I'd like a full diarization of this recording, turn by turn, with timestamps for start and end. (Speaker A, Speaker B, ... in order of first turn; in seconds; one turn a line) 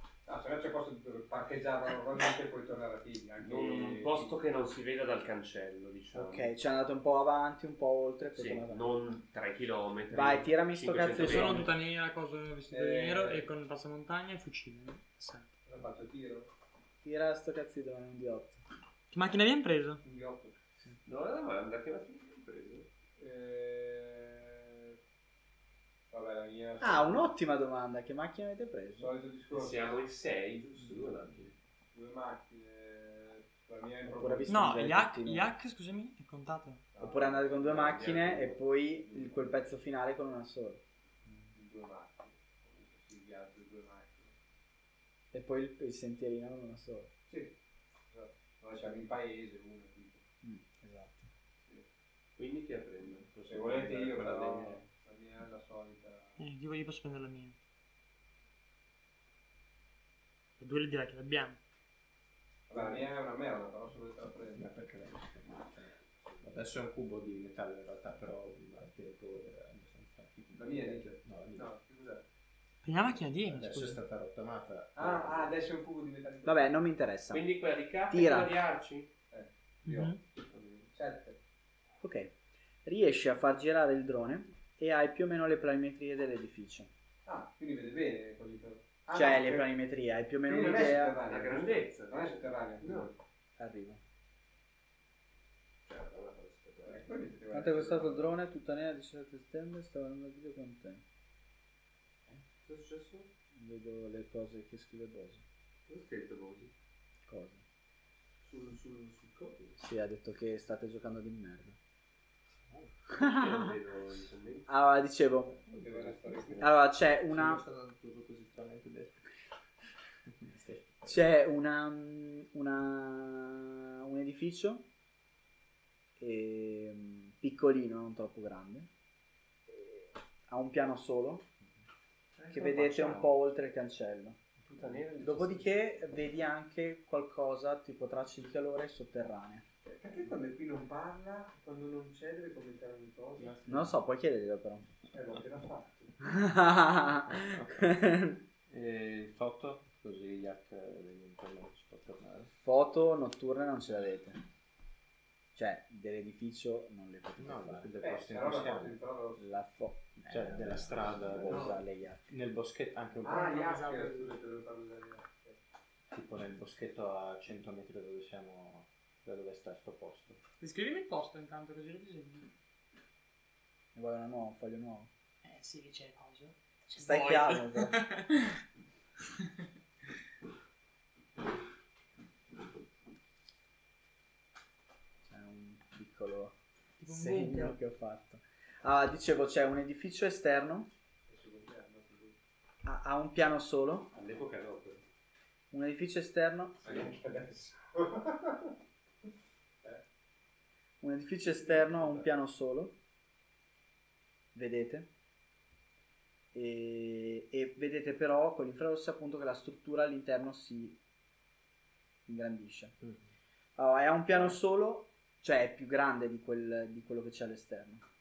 Speaker A: 0.2-4.4
Speaker B: 3.4-6.5
Speaker C: 6.1-8.9
Speaker B: 8.3-11.7
Speaker C: 10.1-11.7
Speaker D: 11.2-15.5
Speaker A: 12.7-13.5
Speaker A: 15.7-16.5
Speaker C: 17.0-18.6
Speaker D: 19.1-20.0
Speaker A: 20.0-20.5
Speaker B: 21.0-22.9
Speaker A: 23.2-24.9
Speaker A: 26.1-27.3
Speaker C: 26.8-29.1
Speaker A: 29.0-30.0
Speaker B: 29.5-31.5
Speaker A: 31.9-34.8
Speaker C: 34.1-35.5
Speaker D: 34.5-36.8
Speaker A: 36.9-38.0
Speaker C: 37.0-40.8
Speaker B: 37.6-38.6
Speaker A: 39.1-39.6
Speaker A: 41.5-44.4
Speaker C: 45.3-47.1
Speaker A: 47.3-47.5
Speaker A: 48.1-50.2
Speaker C: 50.4-51.3
Speaker B: 52.4-54.8
Speaker A: 53.4-56.4
Speaker D: 56.4-57.5
Speaker D: 60.6-61.6
Speaker A: 62.7-64.8
Speaker E: 64.5-71.7
Speaker A: 70.5-72.2
Speaker D: 72.8-74.0
Speaker E: 73.5-75.5
Speaker A: 74.9-76.7
Speaker C: 76.4-77.4
Speaker B: 77.3-79.1
Speaker C: 78.1-78.6
Speaker A: 79.3-80.1
Speaker D: 79.8-80.2
Speaker B: 80.5-80.9
Speaker A: 80.9-81.4
Speaker C: 82.0-82.3
Speaker C: 82.8-86.9
Speaker A: 87.2-89.7
Speaker C: 89.1-91.2
Speaker A: 90.4-93.1
Speaker B: 90.6-93.1
Speaker C: 93.6-94.0
Speaker B: 95.8-97.1
Speaker A: 96.8-98.3
Speaker C: 97.5-101.0
Speaker B: 102.6-103.3
Speaker C: 103.5-105.4
Speaker B: 105.9-106.7
Speaker C: 107.3-107.6
Speaker B: 108.4-109.8
Speaker C: 109.8-111.8
Speaker C: 113.1-113.7
Speaker B: 113.1-114.7
Speaker C: 114.7-115.6
Speaker E: 115.7-119.2
Speaker A: 115.7-116.8
Speaker C: 116.6-117.6
Speaker E: 120.3-121.2
Speaker C: 121.0-124.8
Speaker C: 126.2-128.9
Speaker C: 129.7-131.4
Speaker B: 132.4-133.3
Speaker C: 132.5-134.4
Speaker B: 134.6-135.7
Speaker C: 135.2-139.6
Speaker A: 139.8-143.8
Speaker C: 143.7-144.9
Speaker A: 145.1-146.1
Speaker C: 146.2-148.4
Speaker E: 147.3-147.9
Speaker E: 148.7-152.5
Speaker C: 152.6-154.4
Speaker C: 155.5-157.9
Speaker E: 157.4-159.0
Speaker A: 158.0-159.4
Speaker C: 159.4-162.2
Speaker E: 160.3-163.5
Speaker A: 163.2-165.6
Speaker D: 163.3-164.3
Speaker E: 166.1-170.4
Speaker D: 170.6-172.5
Speaker C: 173.9-175.1
Speaker D: 175.4-178.5
Speaker C: 176.9-178.0
Speaker C: 185.2-190.9
Speaker D: 187.0-187.8
Speaker A: 191.3-192.3
Speaker C: 192.8-194.1
Speaker B: 194.1-195.0
Speaker C: 195.7-197.0
Speaker A: 196.8-198.7
Speaker C: 201.0-202.9
Speaker A: 201.5-202.3
Speaker C: 204.5-205.1
Speaker C: 206.5-211.0
Speaker C: 212.3-212.9
Speaker C: 213.8-218.0